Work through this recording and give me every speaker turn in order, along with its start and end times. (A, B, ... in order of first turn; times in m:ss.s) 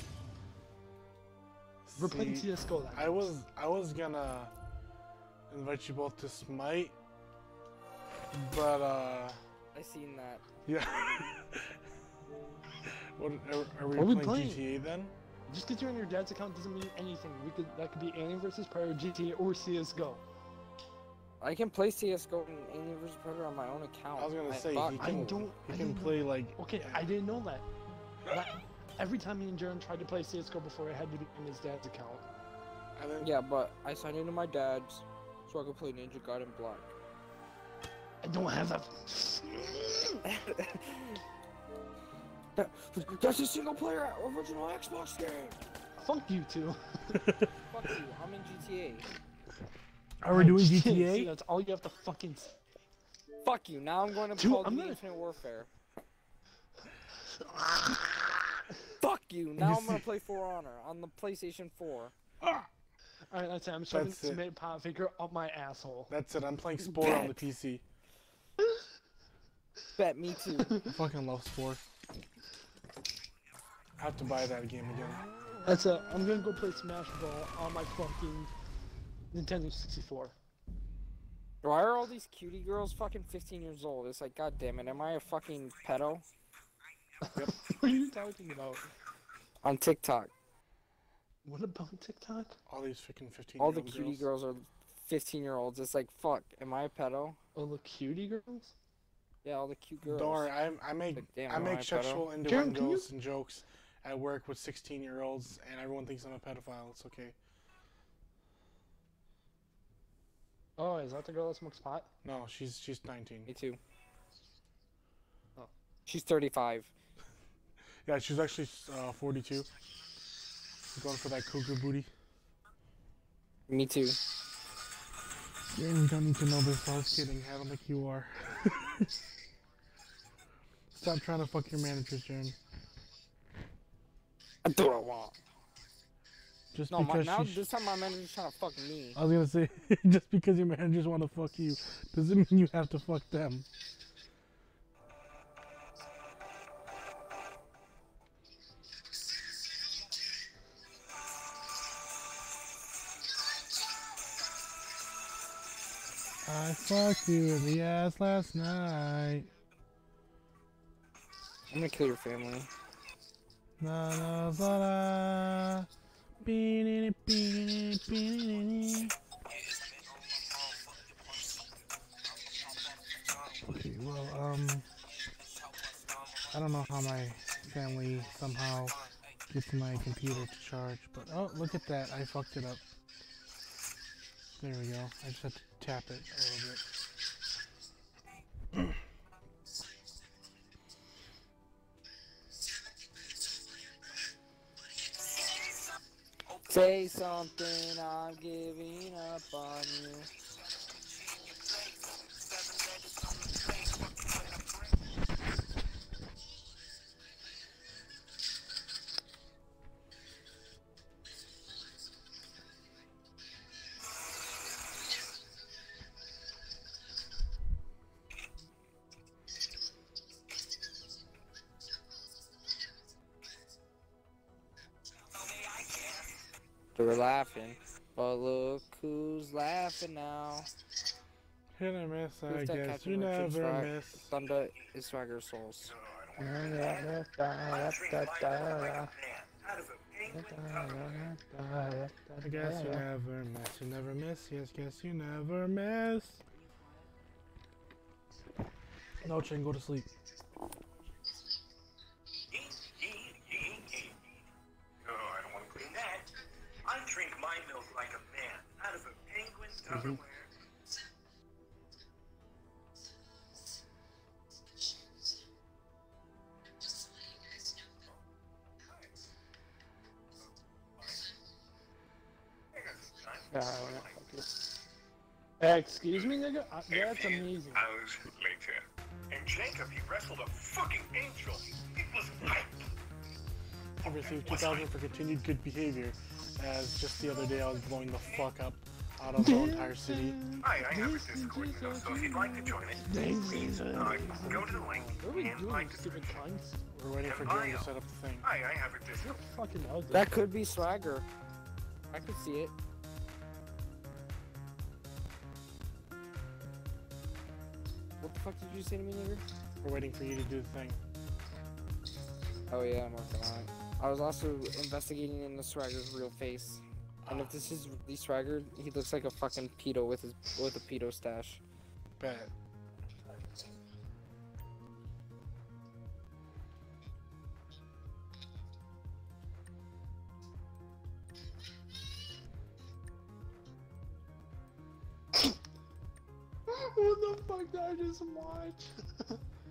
0:01.9-0:04.5 A
0:02.0-0:03.3 B
0:05.5-0:07.0 A
0:08.3-0:09.4 A
0:09.7-0:10.4 C
0:10.7-0:11.8 A
0:12.9-0:15.1 A
0:14.0-0:14.6 B
0:15.5-0:20.2 B
0:21.4-0:25.4 C
0:24.2-0:27.0 A
0:25.0-0:27.7 B
0:28.3-0:32.2 B
0:33.0-0:33.3 A
0:33.2-0:36.9 C
0:38.2-0:40.2 B
0:40.2-0:41.2 C
0:42.6-0:45.6 C
0:46.0-0:47.2 B
0:47.2-0:47.5 A
0:47.7-0:49.1 C
0:50.2-0:51.3 A
0:50.3-0:52.6 B
0:53.4-0:55.7 C
0:54.4-0:55.0 B
0:57.4-0:58.6 B
0:59.0-1:02.1 C
0:59.6-1:00.0 A
1:02.4-1:02.7 A
1:03.3-1:06.1 B
1:03.9-1:04.4 A
1:06.1-1:07.8 A
1:07.0-1:07.3 C
1:10.0-1:10.8 C
1:10.6-1:10.9 B
1:10.9-1:11.8 A
1:14.0-1:15.2 A
1:15.7-1:18.5 B
1:19.3-1:20.4 B
1:21.6-1:26.2 C
1:27.2-1:28.9 B
1:29.6-1:30.3 C
1:31.4-1:32.6 B
1:32.7-1:34.2 A
1:33.6-1:37.4 C
1:37.6-1:38.7 B
1:39.4-1:40.5 C
1:40.0-1:47.4 A
1:41.1-1:42.2 C
1:42.4-1:43.1 B
1:50.8-1:52.1 B
1:52.2-1:53.5 A
1:53.5-1:53.8 C
1:56.1-1:56.9 C
1:58.0-1:59.7 A
2:00.9-2:02.1 A
2:03.7-2:04.2 C
2:05.7-2:09.1 A
2:10.9-2:12.6 A
2:14.6-2:15.4 C
2:16.7-2:17.6 A
2:16.9-2:19.2 C
2:19.1-2:23.7 A
2:36.4-2:39.5 A
2:41.7-2:42.7 C
2:43.8-2:45.9 A
2:46.4-2:49.1 A
2:53.7-2:54.9 A
2:56.5-2:59.0 A
2:59.5-3:02.8 A
3:04.6-3:06.8 A
3:16.7-3:20.3 C
3:21.2-3:24.8 D
3:47.0-3:50.7 C
3:51.8-3:54.3 A
3:52.5-3:55.9 C
3:55.8-3:57.1 D
3:56.4-3:59.1 B
3:57.7-4:01.3 D
4:00.3-4:03.0 B
4:02.4-4:06.4 A
4:09.2-4:10.1 A
4:12.5-4:14.4 D
4:15.0-4:16.3 D
4:16.8-4:20.5 D
4:28.8-4:29.1 D
4:32.7-4:34.2 D
4:33.5-4:34.7 B
4:35.6-4:37.9 B
4:36.1-4:42.7 D
4:44.0-4:44.9 D
4:44.0-4:50.4 A
4:48.1-4:48.5 D
4:49.4-4:56.8 B
4:50.6-4:53.1 D
4:53.8-4:56.5 D
4:54.9-4:55.1 A
4:56.9-4:58.5 A
4:57.2-4:59.4 D
4:59.2-5:00.3 B
5:00.1-5:01.2 C
5:02.1-5:02.7 C
5:08.2-5:09.4 C
5:09.8-5:11.0 A
5:12.7-5:21.6 C
5:17.2-5:17.6 A
5:22.2-5:22.5 A
5:36.7-5:39.4 B